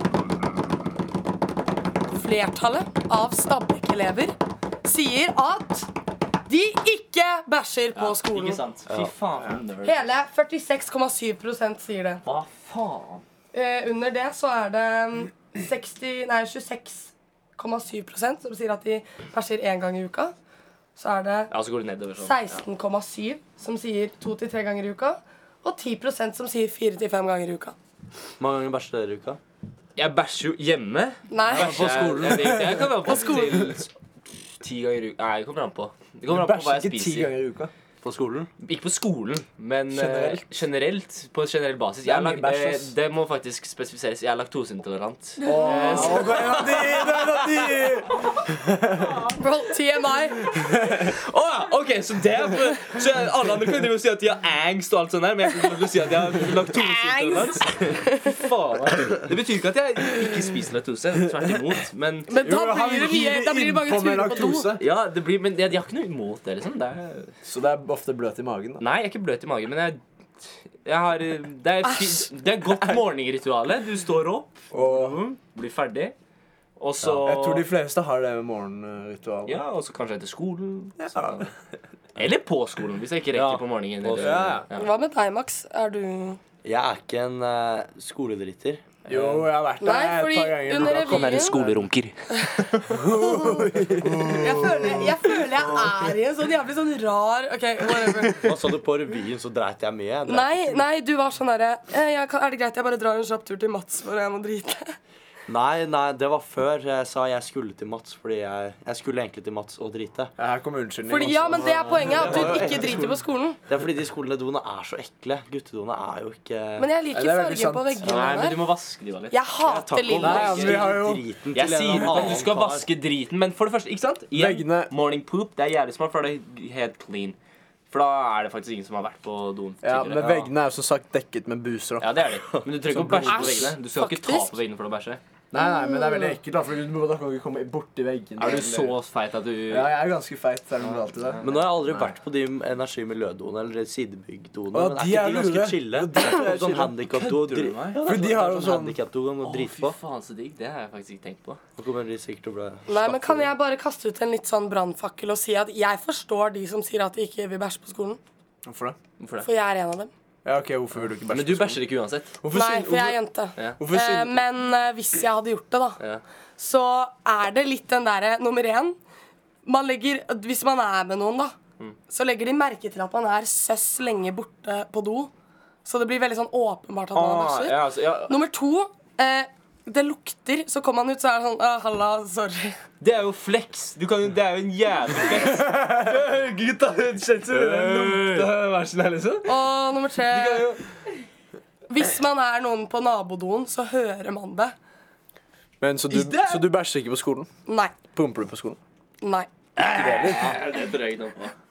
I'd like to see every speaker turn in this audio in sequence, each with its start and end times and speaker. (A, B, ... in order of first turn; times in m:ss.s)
0:02.1-0:08.6 A
0:08.0-0:10.1 B
0:09.8-0:12.2 A
0:12.2-0:13.2 B
0:13.5-0:20.3 A
0:21.0-0:21.5 A
0:21.5-0:22.6 B
0:22.2-0:27.8 A
0:28.4-0:29.4 C
0:30.0-0:33.9 B
0:31.3-0:32.2 A
0:31.5-0:32.8 C
0:33.0-0:33.8 A
0:34.6-0:37.3 B
0:36.3-0:37.7 D
0:38.0-0:38.5 C
0:38.6-0:47.7 B
0:39.9-0:40.4 D
0:42.0-0:42.9 D
0:45.4-0:49.2 D
0:45.4-0:46.3 A
0:49.4-0:50.4 A
0:50.8-0:51.1 D
0:51.0-1:02.3 B
0:56.8-0:58.3 A
1:02.3-1:04.7 A
1:02.4-1:04.8 D
1:04.8-1:07.3 B
1:07.4-1:08.8 D
1:08.8-1:10.0 B
1:10.8-1:16.2 B
1:14.7-1:15.2 D
1:16.8-1:17.7 B
1:17.1-1:19.6 D
1:19.5-1:21.5 B
1:21.0-1:21.5 D
1:22.2-1:24.9 B
1:23.3-1:24.6 C
1:24.2-1:24.7 D
1:24.8-1:26.4 A
1:26.6-1:29.3 C
1:29.1-1:31.6 D
1:29.1-1:29.4 B
1:29.8-1:31.6 A
1:30.9-1:32.8 B
1:31.0-1:31.9 C
1:32.3-1:38.5 A
1:32.9-1:35.1 D
1:38.4-1:40.9 C
1:40.3-1:45.0 A
1:45.5-1:50.3 C
1:50.4-1:53.0 D
1:51.1-1:53.6 A
1:51.2-1:52.4 B
1:52.1-1:53.1 C
1:53.7-1:56.9 C
1:56.8-1:58.7 A
1:57.1-1:58.2 D
1:58.0-1:59.4 B
1:59.3-2:00.6 A
1:59.6-2:02.9 C
2:00.2-2:02.5 D
2:00.2-2:01.0 B
2:01.5-2:07.4 B
2:04.3-2:04.9 D
2:07.9-2:10.4 B
2:09.8-2:12.1 D
2:10.2-2:10.5 C
2:12.0-2:15.2 B
2:12.9-2:13.7 D
2:13.3-2:14.6 A
2:15.5-2:19.0 D
2:15.6-2:16.4 A
2:18.4-2:19.9 B
2:19.7-2:22.1 D
2:20.8-2:21.6 B
2:21.4-2:30.0 C
2:24.7-2:27.3 D
2:27.1-2:28.3 B
2:28.0-2:29.0 D
2:29.4-2:31.6 B
2:31.8-2:33.5 C
2:32.9-2:38.2 A
2:38.7-2:39.0 D
2:39.2-2:39.5 B
2:39.4-2:40.1 A
2:40.4-2:41.8 D
2:41.3-2:42.4 B
2:42.4-2:43.2 D
2:42.5-2:46.0 A
2:43.8-2:44.4 D
2:46.6-2:49.0 A
2:49.6-2:51.6 A
2:52.1-2:55.3 A
2:55.8-3:02.8 A
2:57.1-2:58.4 B
3:03.0-3:09.6 B
3:05.4-3:06.2 D
3:07.5-3:08.5 D
3:09.4-3:10.7 A
3:10.3-3:10.8 B
3:11.9-3:14.7 A
3:15.8-3:17.5 D
3:16.1-3:16.7 B
3:17.7-3:18.0 A
3:18.1-3:18.8 D
3:19.2-3:19.5 A
3:19.8-3:20.6 D
3:19.8-3:21.5 B